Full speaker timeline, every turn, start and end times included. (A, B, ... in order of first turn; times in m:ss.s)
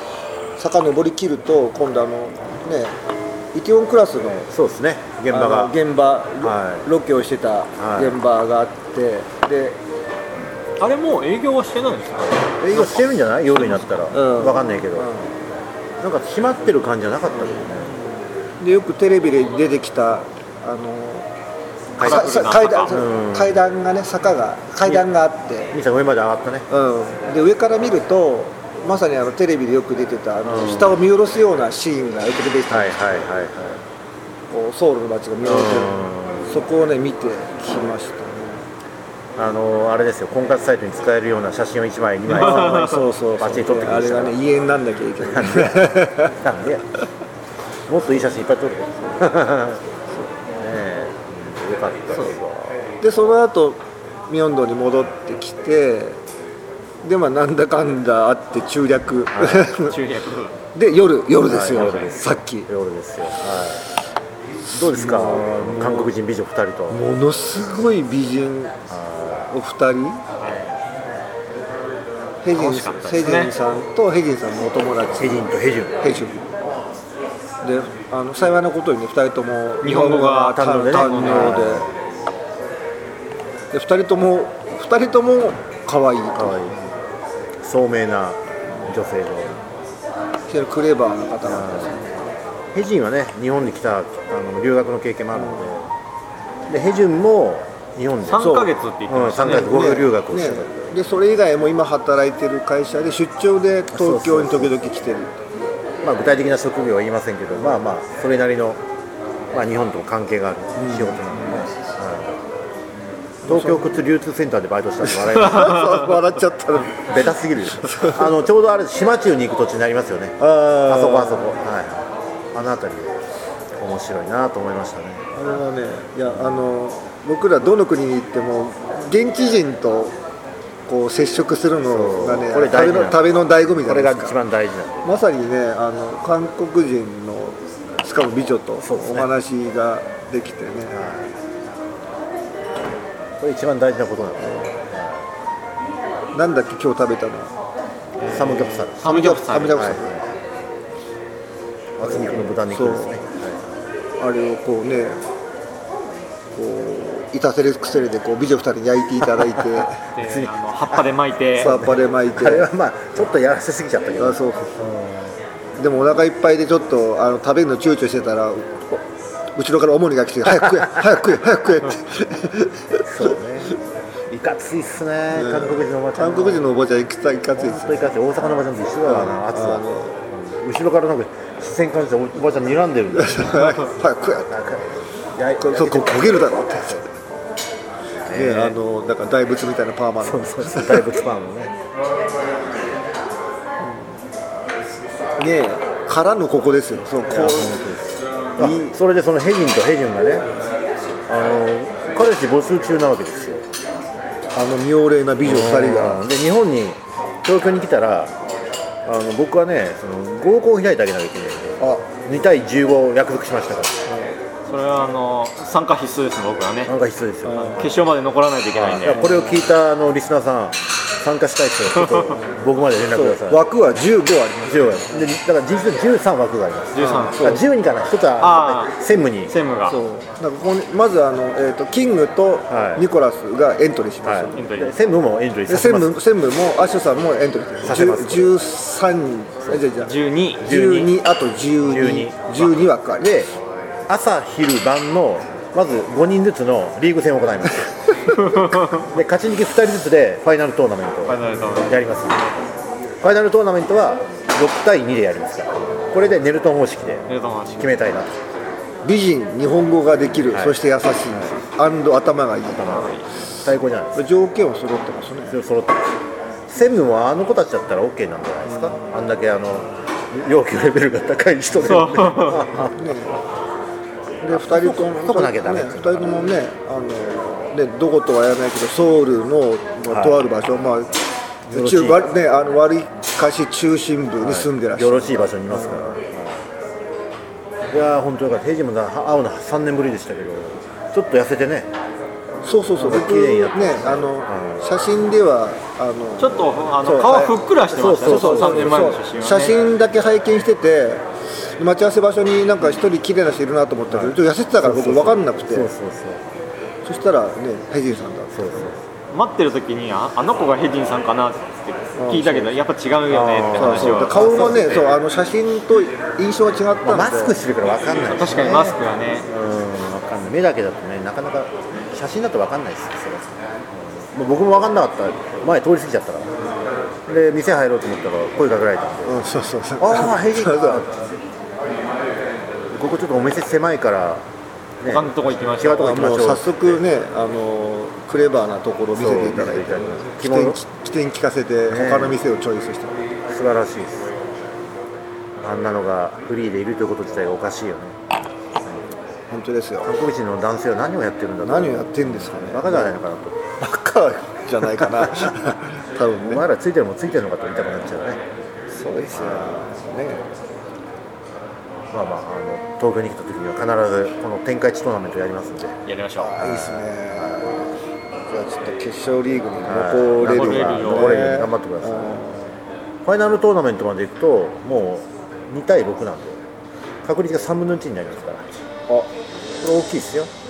0:00.6-0:03.0 A
0:03.5-0:04.5 A
0:04.5-0:05.8 B
0:05.3-0:09.8 A
0:06.4-0:06.8 B
0:07.8-0:08.2 B
0:10.8-0:12.9 C
0:12.6-0:15.1 B
0:13.5-0:14.0 C
0:14.1-0:15.4 A
0:16.0-0:18.0 B
0:17.3-0:18.1 A
0:18.6-0:21.3 A
0:22.0-0:23.0 C
0:22.0-0:23.6 B
0:22.0-0:25.7 A
0:25.7-0:26.7 B
0:26.7-0:33.0 A
0:30.4-0:31.0 B
0:32.7-0:33.8 B
0:34.5-0:38.7 A
0:35.4-0:36.5 B
0:39.4-0:44.4 B
0:42.3-0:46.3 A
0:45.2-0:47.0 B
0:47.9-0:49.8 B
0:50.6-0:52.9 B
0:53.0-0:56.2 A
0:57.0-0:59.9 A
0:59.3-0:59.7 B
0:59.8-1:00.6 C
1:00.7-1:02.7 A
1:01.4-1:03.8 B
1:01.7-1:02.2 C
1:04.7-1:06.1 A
1:04.7-1:07.0 B
1:06.9-1:08.8 A
1:08.9-1:09.5 B
1:09.5-1:10.2 A
1:10.4-1:10.7 C
1:10.4-1:10.7 B
1:12.4-1:15.5 A
1:12.6-1:13.5 C
1:15.2-1:16.2 B
1:16.0-1:16.5 A
1:17.6-1:21.9 A
1:19.8-1:21.6 C
1:20.4-1:22.0 B
1:23.7-1:26.7 A
1:26.4-1:26.8 B
1:27.6-1:29.6 B
1:30.5-1:32.3 A
1:31.4-1:32.0 B
1:32.7-1:35.9 B
1:35.3-1:35.7 A
1:36.7-1:41.0 B
1:38.2-1:39.9 C
1:38.4-1:38.7 A
1:39.4-1:45.3 A
1:43.9-1:44.8 B
1:46.0-1:48.8 B
1:47.5-1:47.8 A
1:49.5-1:52.4 B
1:50.8-1:51.6 A
1:53.4-1:54.0 A
1:53.4-1:56.1 B
1:55.0-1:58.3 A
1:56.9-2:03.2 B
2:00.4-2:01.6 A
2:03.8-2:05.3 B
2:05.3-2:10.2 A
2:06.3-2:06.6 B
2:10.8-2:14.4 A
2:11.9-2:13.3 B
2:13.8-2:15.2 B
2:15.0-2:21.0 A
2:18.8-2:19.3 B
2:20.9-2:21.3 B
2:23.4-2:25.3 B
2:24.4-2:24.7 A
2:26.3-2:27.5 A
2:28.2-2:30.2 B
2:28.3-2:29.9 C
2:29.0-2:30.2 A
2:32.0-2:33.8 B
2:32.0-2:33.2 A
2:34.2-2:35.2 A
2:36.5-2:40.0 A
2:40.2-2:41.7 C
2:40.2-2:41.0 B
2:41.6-2:42.7 A
2:41.6-2:45.4 B
2:44.2-2:44.8 A
2:45.8-2:53.4 A
2:53.0-2:53.7 B
2:54.3-2:56.7 B
2:55.3-2:58.1 A
2:57.6-3:07.2 B
2:59.0-3:00.2 A
3:03.1-3:04.5 A
3:05.6-3:07.0 A
3:08.2-3:08.8 B
3:08.3-3:11.1 A
3:10.2-3:11.7 B
3:13.8-3:14.2 A
3:15.4-3:17.8 A
3:17.3-3:20.5 B
3:18.6-3:19.0 A
3:21.3-3:23.6 B
3:24.5-3:26.2 A
3:25.4-3:28.3 B
3:29.0-3:34.1 B
3:31.8-3:32.2 A
3:34.1-3:34.4 A
3:34.7-3:36.9 C
3:36.9-3:37.9 B
3:37.4-3:37.9 A
3:37.8-3:39.2 C
3:38.7-3:43.6 B
3:39.0-3:39.7 A
3:42.2-3:42.6 A
3:43.1-3:45.3 A
3:44.6-3:49.5 B
3:46.9-3:47.6 C
3:47.0-3:47.6 A
3:48.4-3:48.9 C
3:49.5-3:50.0 C
3:49.9-3:54.7 A
3:52.7-3:53.1 B
3:54.2-3:56.2 B
3:54.5-3:54.9 C
3:55.7-4:03.4 A
3:57.8-3:58.5 B
4:00.0-4:00.7 C
4:00.6-4:01.2 B
4:01.8-4:03.5 B
4:04.1-4:12.6 B
4:08.3-4:09.0 C
4:11.2-4:12.0 C
4:13.2-4:18.3 B
4:17.3-4:18.0 C
4:19.0-4:23.2 A
4:20.5-4:20.8 B
4:21.3-4:21.6 B
4:22.7-4:24.3 B
4:22.9-4:23.2 C
4:24.1-4:25.6 A
4:25.5-4:33.0 B
4:28.6-4:29.1 A
4:31.8-4:32.7 C
4:32.8-4:33.4 A
4:34.4-4:41.2 A
4:34.5-4:36.3 B
4:40.1-4:40.4 B
4:41.7-4:42.3 B
4:41.7-4:46.2 A
4:44.4-4:46.7 B
4:47.9-4:51.9 B
4:52.6-5:05.9 A
4:52.9-4:54.8 B
4:56.4-4:59.7 C
4:57.9-4:59.2 B
5:04.1-5:06.4 B
5:07.0-5:08.9 A
5:08.5-5:09.0 B
5:09.3-5:15.1 C
5:12.2-5:12.8 A
5:13.3-5:15.0 B
5:13.7-5:17.6 A
5:17.0-5:26.5 B
5:18.3-5:19.5 C
5:27.3-5:29.4 B
5:29.2-5:31.0 A
5:30.0-5:31.4 B
5:32.9-5:34.4 B
5:35.0-5:37.0 B
5:35.1-5:36.4 C
5:36.0-5:43.2 A
5:39.2-5:40.8 B
5:41.9-5:42.4 B
5:43.5-5:44.3 B
5:45.6-5:48.2 B
5:49.5-5:50.2 A
5:50.0-5:53.8 B
5:51.6-5:53.2 A
5:53.8-5:56.6 A
5:55.0-5:55.5 B
5:56.4-5:58.4 B
5:58.9-6:00.5 A
5:59.3-5:59.8 B
6:02.1-6:07.7 B
6:06.0-6:06.6 C
6:06.5-6:07.9 A
6:08.5-6:12.7 A
6:09.8-6:12.4 B
6:10.4-6:11.5 C
6:13.2-6:16.6 B
6:17.2-6:18.7 B
6:19.8-6:20.5 B